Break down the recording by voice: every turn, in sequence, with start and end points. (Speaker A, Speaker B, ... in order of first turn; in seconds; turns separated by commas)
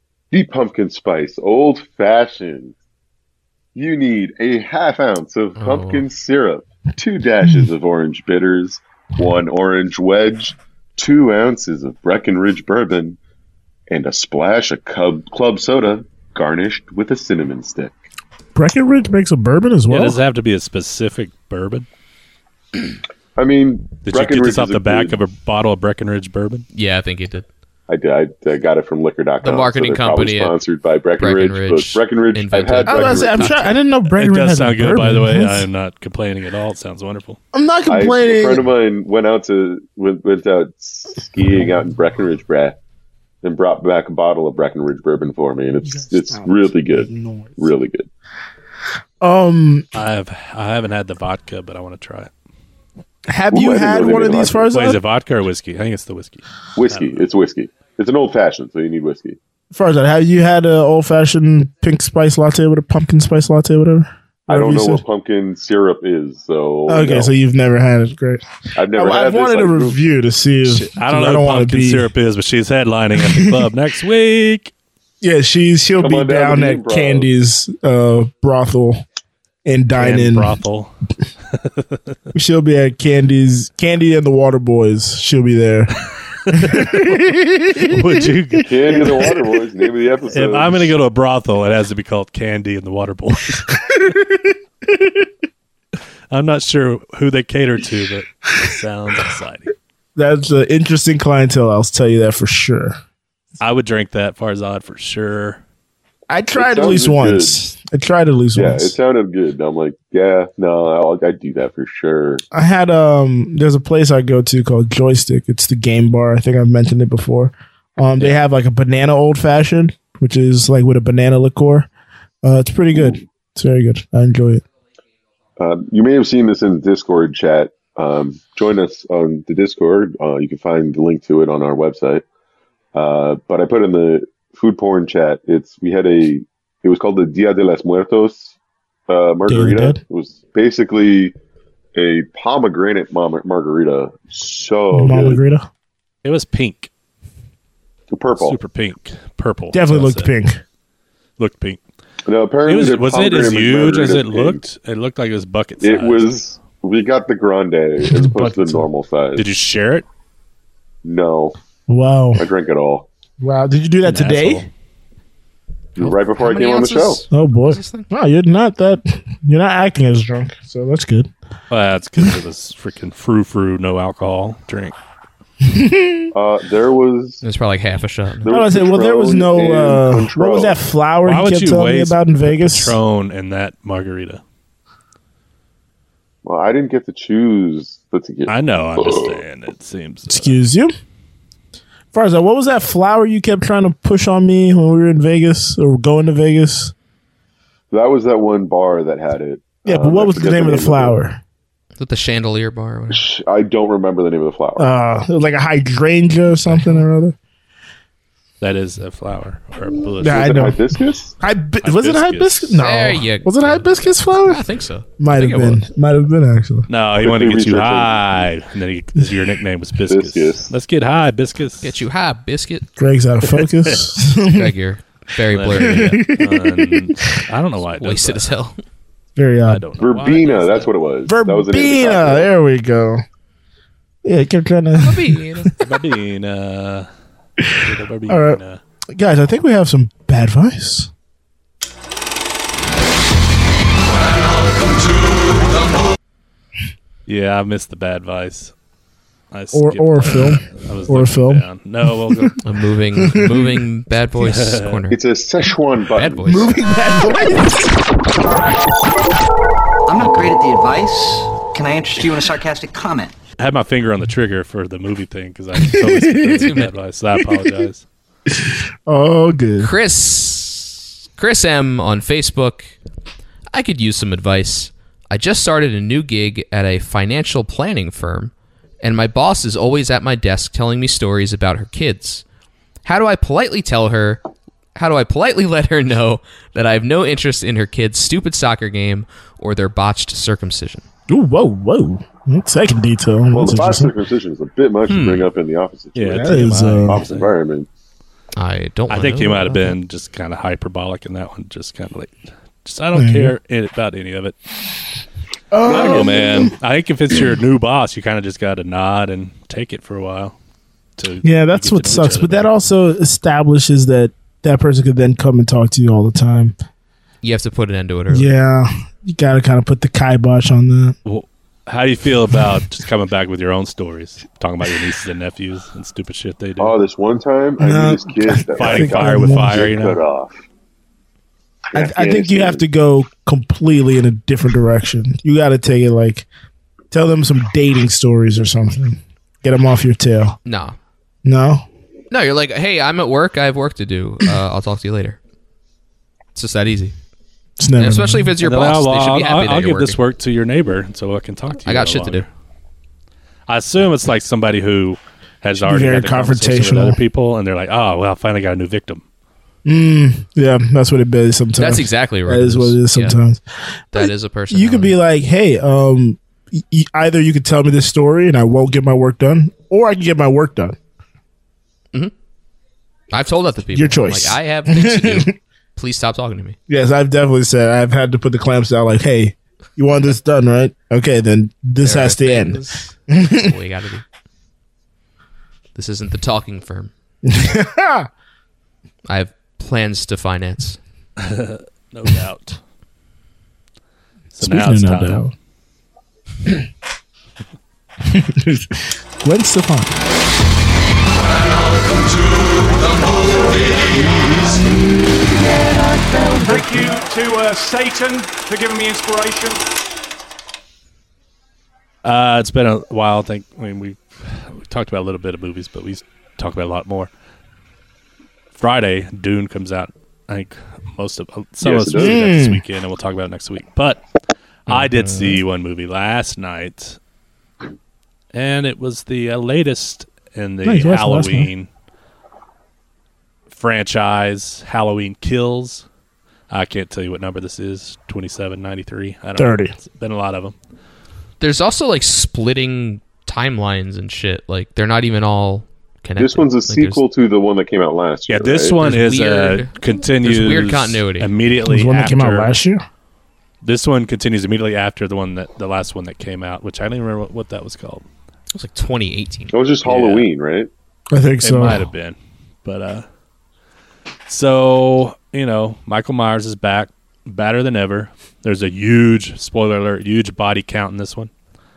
Speaker A: 0.3-2.7, Speaker A: 3.7-13.2, Speaker B: 5.6-6.0, Speaker A: 13.9-18.0, Speaker C: 18.5-20.2, Speaker D: 19.9-21.9, Speaker A: 23.4-25.2, Speaker D: 24.0-26.6, Speaker B: 26.7-27.4, Speaker A: 27.9-33.6, Speaker B: 29.4-30.6, Speaker B: 31.2-33.8, Speaker C: 32.9-35.7, Speaker D: 34.1-37.4, Speaker C: 37.5-38.7, Speaker A: 37.9-42.8, Speaker A: 43.4-48.1, Speaker C: 46.3-47.7, Speaker C: 49.2-49.9, Speaker D: 49.9-52.3, Speaker C: 53.3-55.0, Speaker A: 53.5-54.7, Speaker D: 54.7-57.3, Speaker A: 56.8-59.4, Speaker C: 59.7-65.0, Speaker A: 64.5-67.3, Speaker C: 66.9-72.1, Speaker A: 68.8-70.0, Speaker D: 70.6-74.7, Speaker C: 73.2-73.6, Speaker C: 75.2-79.0, Speaker A: 76.0-77.3, Speaker C: 79.6-80.5, Speaker D: 80.0-80.9, Speaker D: 81.5-82.0, Speaker C: 82.3-85.9, Speaker C: 86.5-89.3, Speaker D: 86.5-87.2, Speaker D: 87.8-89.3, Speaker A: 88.6-90.9, Speaker D: 90.3-93.7, Speaker C: 93.7-95.2, Speaker D: 96.3-99.7, Speaker C: 100.2-103.0, Speaker D: 103.6-105.6, Speaker C: 106.3-109.0, Speaker A: 106.5-107.6, Speaker A: 108.5-112.4, Speaker C: 112.5-121.9, Speaker C: 122.4-124.6, Speaker A: 125.6-132.2, Speaker A: 132.9-138.5, Speaker A: 139.1-141.3, Speaker C: 139.5-140.0, Speaker A: 141.9-145.4, Speaker C: 144.9-145.7, Speaker D: 146.2-146.9, Speaker A: 148.1-148.6, Speaker D: 148.4-150.3, Speaker C: 149.7-150.6, Speaker D: 151.4-151.8, Speaker A: 152.2-154.6, Speaker D: 152.6-156.3, Speaker A: 155.8-159.5, Speaker C: 158.0-158.9, Speaker D: 159.3-160.1, Speaker A: 161.0-161.6, Speaker C: 161.9-162.5, Speaker A: 162.3-163.1, Speaker C: 163.4-164.7, Speaker D: 164.0-164.7, Speaker A: 165.9-167.2, Speaker B: 166.0-168.1, Speaker C: 167.3-171.3, Speaker D: 171.7-174.9, Speaker C: 175.6-176.3, Speaker A: 176.3-177.4, Speaker B: 177.4-178.5, Speaker A: 178.4-180.8, Speaker C: 178.4-183.0, Speaker D: 181.2-184.4, Speaker A: 186.4-189.4, Speaker D: 188.5-190.6, Speaker C: 190.3-190.9, Speaker C: 192.1-196.9, Speaker A: 197.9-201.2, Speaker C: 199.8-201.4, Speaker B: 202.0-203.2, Speaker A: 203.1-204.9, Speaker C: 204.8-207.3, Speaker B: 206.7-207.0, Speaker D: 208.6-210.7, Speaker C: 210.2-210.8, Speaker A: 210.2-211.3, Speaker C: 211.4-214.6, Speaker D: 211.8-212.8, Speaker B: 212.8-215.8, Speaker C: 215.2-216.9, Speaker D: 216.9-221.9, Speaker A: 217.2-218.1, Speaker A: 220.1-220.7, Speaker B: 221.8-222.8, Speaker C: 223.0-224.7, Speaker B: 224.5-226.2, Speaker D: 225.5-228.5, Speaker C: 225.7-227.2, Speaker B: 228.0-228.8, Speaker C: 229.3-229.8, Speaker D: 229.6-230.9, Speaker A: 230.0-232.5, Speaker C: 231.2-233.2, Speaker C: 234.2-235.7, Speaker B: 235.0-235.7, Speaker D: 235.8-237.1, Speaker D: 237.7-238.8, Speaker C: 238.3-238.6, Speaker C: 239.1-241.1, Speaker D: 247.3-248.7, Speaker D: 249.5-252.6, Speaker C: 249.7-252.5, Speaker B: 252.6-255.2, Speaker C: 253.2-253.8, Speaker D: 254.4-255.0, Speaker A: 255.1-256.7, Speaker B: 256.1-256.7, Speaker C: 256.4-258.0, Speaker E: 260.1-263.3, Speaker D: 263.6-268.1, Speaker C: 265.8-266.7, Speaker C: 268.5-269.9, Speaker B: 269.8-272.9, Speaker B: 273.7-282.4, Speaker B: 283.0-284.4, Speaker B: 284.9-291.0, Speaker C: 291.3-294.1, Speaker A: 293.5-297.9, Speaker B: 295.1-295.5, Speaker D: 296.1-297.5, Speaker C: 296.3-297.2, Speaker B: 298.6-299.9, Speaker D: 299.1-304.6, Speaker C: 303.1-303.5, Speaker C: 305.7-306.7, Speaker D: 305.8-310.6, Speaker D: 311.2-312.7, Speaker C: 311.4-316.7, Speaker B: 317.4-318.5, Speaker C: 318.3-321.1, Speaker D: 321.2-326.9, Speaker A: 326.8-330.6, Speaker C: 327.8-329.9, Speaker D: 328.8-330.2, Speaker A: 331.9-332.8, Speaker C: 331.9-336.5, Speaker C: 337.1-340.6, Speaker B: 340.6-340.9, Speaker C: 341.4-341.9, Speaker B: 342.3-345.4, Speaker B: 346.5-347.1, Speaker C: 347.8-348.5, Speaker B: 348.0-350.2, Speaker D: 348.6-352.5, Speaker B: 351.9-352.4, Speaker D: 353.7-359.2, Speaker C: 355.8-357.2, Speaker C: 359.8-363.6, Speaker B: 361.8-363.4, Speaker B: 364.1-365.2, Speaker C: 364.1-371.0, Speaker B: 373.3-376.8, Speaker C: 373.9-375.5, Speaker C: 376.9-383.7, Speaker B: 382.0-384.2, Speaker B: 385.9-387.1, Speaker C: 387.4-388.3, Speaker B: 389.3-391.0, Speaker D: 391.4-392.8, Speaker D: 394.5-395.4, Speaker C: 394.6-395.5, Speaker C: 398.2-400.1, Speaker F: 403.1-404.1, Speaker F: 406.9-409.8, Speaker D: 412.2-417.3, Speaker D: 418.7-424.2, Speaker A: 421.8-422.4, Speaker C: 422.1-422.8, Speaker D: 424.9-427.2, Speaker B: 424.9-425.6, Speaker D: 428.5-431.9, Speaker C: 430.8-431.7, Speaker D: 433.7-436.0, Speaker D: 436.7-440.7, Speaker C: 439.6-439.9, Speaker B: 441.6-447.2, Speaker A: 446.4-449.0, Speaker D: 448.5-452.7, Speaker B: 449.0-451.5, Speaker C: 451.8-453.0, Speaker D: 453.8-458.2, Speaker B: 458.7-459.8, Speaker A: 459.7-460.9, Speaker D: 460.0-460.4, Speaker C: 461.3-462.1, Speaker D: 461.6-463.2, Speaker D: 464.5-471.5